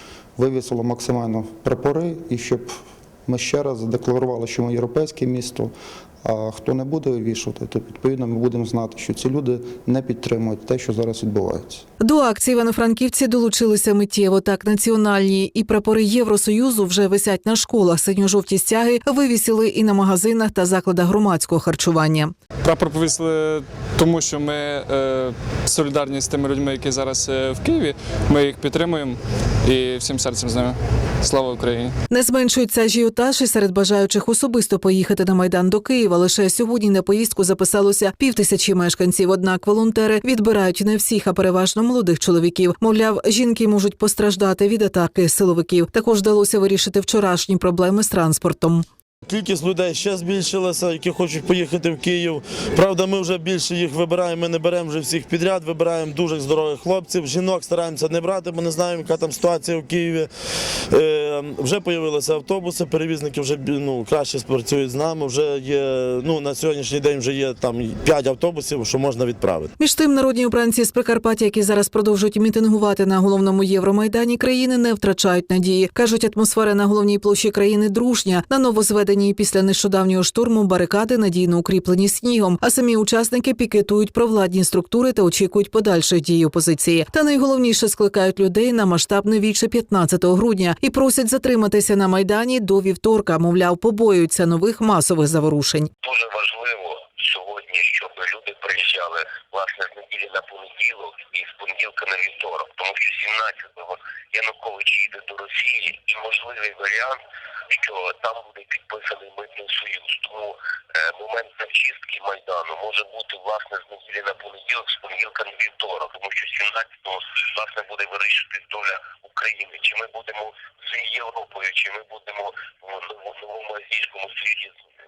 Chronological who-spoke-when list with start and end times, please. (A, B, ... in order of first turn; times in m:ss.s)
0:00.4-0:02.8 A
0:03.3-0:05.7 A
0:06.2-0:11.8 A
0:12.0-0:22.3 B
0:22.6-0:31.9 C
0:32.1-0:48.8 B
0:49.3-1:00.3 D
1:00.9-1:09.7 D
1:09.8-1:35.9 B
1:36.0-1:47.2 E
1:47.7-2:04.8 E